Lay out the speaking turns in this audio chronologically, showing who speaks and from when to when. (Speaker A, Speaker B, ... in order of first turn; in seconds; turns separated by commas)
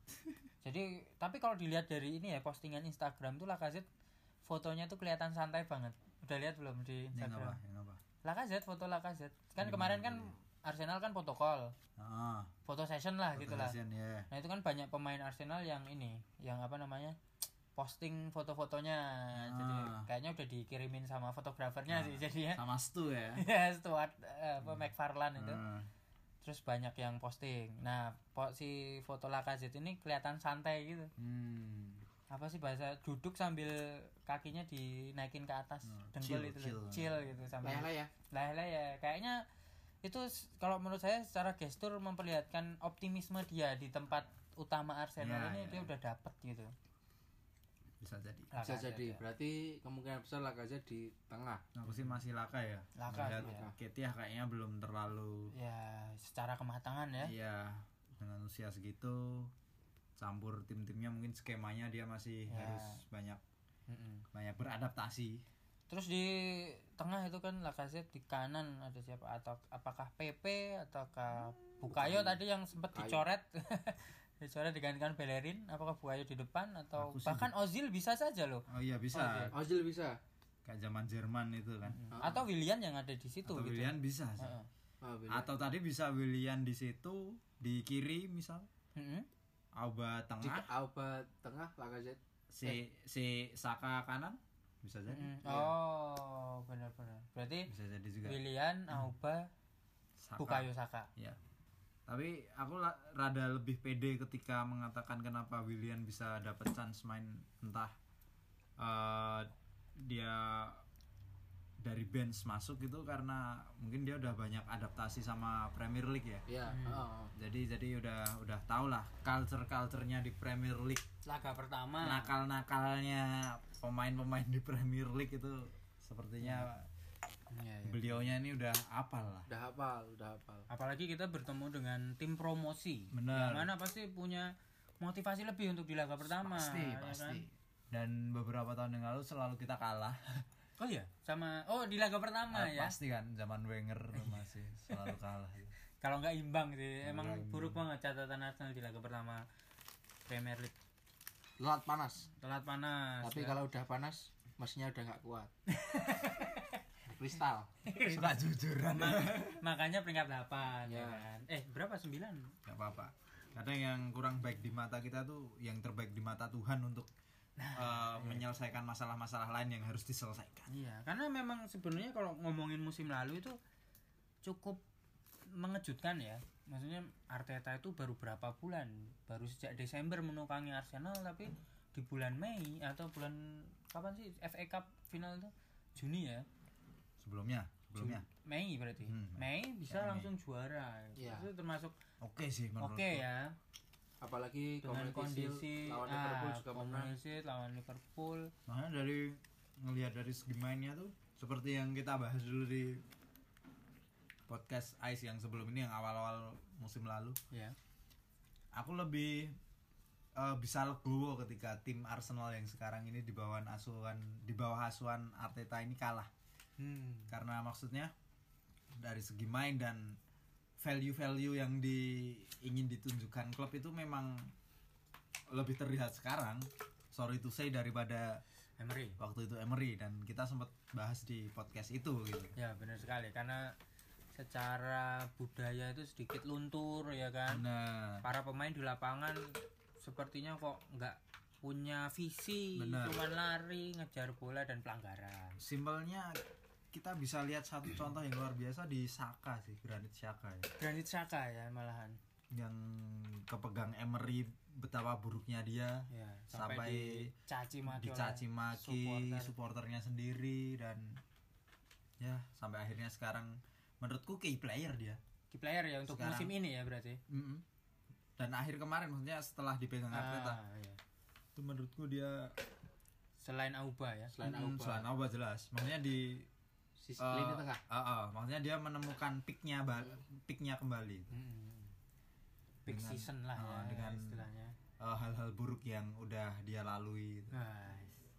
Speaker A: 0.6-3.9, Speaker A: 4.5-7.6, Speaker B: 7.1-8.0, Speaker A: 8.2-11.8, Speaker B: 9.6-10.3, Speaker B: 12.0-12.5, Speaker A: 12.7-13.8, Speaker B: 13.3-14.3, Speaker A: 14.3-17.2, Speaker A: 17.8-22.6, Speaker B: 19.3-20.1, Speaker B: 21.9-23.4, Speaker A: 23.4-25.6, Speaker B: 24.6-25.9, Speaker A: 26.4-31.1, Speaker B: 31.2-32.1, Speaker A: 32.3-39.4, Speaker B: 35.9-37.5, Speaker C: 37.6-38.1, Speaker A: 40.0-46.7, Speaker B: 45.2-45.9, Speaker B: 48.0-48.5, Speaker A: 48.5-49.2, Speaker C: 48.6-51.6, Speaker B: 51.8-55.5, Speaker A: 53.0-53.7, Speaker C: 53.4-53.7, Speaker A: 55.5-57.3, Speaker B: 57.2-59.5, Speaker B: 60.2-63.4, Speaker A: 62.5-63.0, Speaker A: 63.9-64.2, Speaker B: 64.3-65.4, Speaker A: 65.9-79.5, Speaker B: 71.9-72.4, Speaker C: 72.9-73.3, Speaker B: 77.0-77.5, Speaker B: 78.7-79.5, Speaker C: 79.5-80.2, Speaker B: 80.7-82.3, Speaker A: 81.9-84.7, Speaker C: 82.1-82.4, Speaker B: 83.5-84.5, Speaker C: 85.0-85.6, Speaker B: 85.3-88.7, Speaker A: 89.0-89.3, Speaker B: 89.8-90.7, Speaker C: 90.4-92.8, Speaker B: 92.5-95.6, Speaker A: 95.1-97.7, Speaker B: 97.7-98.4, Speaker A: 98.2-99.5, Speaker B: 100.2-101.4, Speaker A: 100.4-101.1, Speaker B: 102.1-108.0, Speaker B: 108.8-110.8, Speaker B: 111.8-116.5, Speaker C: 116.5-117.3, Speaker A: 116.7-117.0, Speaker B: 117.3-121.0, Speaker A: 121.2-122.3, Speaker B: 122.0-126.9, Speaker A: 126.4-126.7, Speaker A: 127.5-128.3, Speaker B: 127.8-129.5, Speaker C: 129.5-130.7, Speaker A: 130.7-137.4, Speaker B: 133.1-133.7, Speaker B: 136.2-140.4, Speaker A: 140.8-142.9, Speaker B: 142.5-145.7, Speaker A: 146.0-149.4, Speaker B: 147.0-147.8, Speaker A: 150.3-150.8, Speaker C: 151.6-152.3, Speaker A: 152.4-153.6, Speaker C: 153.2-155.5, Speaker A: 155.7-156.8, Speaker C: 157.1-157.7, Speaker A: 157.8-158.4, Speaker B: 158.0-159.6, Speaker A: 158.9-162.6, Speaker C: 160.9-161.3, Speaker B: 162.7-167.1, Speaker A: 167.6-168.5, Speaker B: 167.7-170.7, Speaker A: 170.7-173.6, Speaker A: 174.4-174.8, Speaker A: 175.5-186.5, Speaker B: 187.2-188.3, Speaker A: 188.0-192.0, Speaker B: 189.1-190.3, Speaker C: 191.2-191.5, Speaker B: 192.2-193.2, Speaker A: 192.8-193.6, Speaker C: 194.2-197.2, Speaker A: 194.8-198.5, Speaker B: 198.7-203.0, Speaker B: 204.5-207.4, Speaker B: 208.7-209.6, Speaker B: 210.4-216.3, Speaker A: 216.8-217.3, Speaker B: 217.3-218.1, Speaker B: 219.0-220.2, Speaker B: 220.8-224.5, Speaker B: 225.5-228.4, Speaker A: 228.8-229.2, Speaker B: 229.2-232.6, Speaker A: 232.6-233.8, Speaker A: 234.3-237.7, Speaker B: 237.5-238.2, Speaker A: 238.2-245.6, Speaker B: 242.8-243.2, Speaker B: 245.6-246.4, Speaker B: 246.9-250.7, Speaker A: 250.8-252.2, Speaker B: 252.5-257.3, Speaker A: 256.1-259.5, Speaker B: 257.9-261.2, Speaker B: 262.2-265.2, Speaker A: 265.5-267.2, Speaker B: 266.1-266.6, Speaker B: 267.3-267.6, Speaker B: 268.4-270.6, Speaker A: 270.1-271.0, Speaker B: 271.6-272.6, Speaker A: 273.4-274.4, Speaker C: 274.4-275.1, Speaker B: 274.4-276.5, Speaker C: 277.0-277.8, Speaker B: 277.2-281.3, Speaker A: 281.3-281.9, Speaker A: 282.9-284.8, Speaker B: 282.9-284.4, Speaker B: 285.0-287.6, Speaker A: 287.5-288.2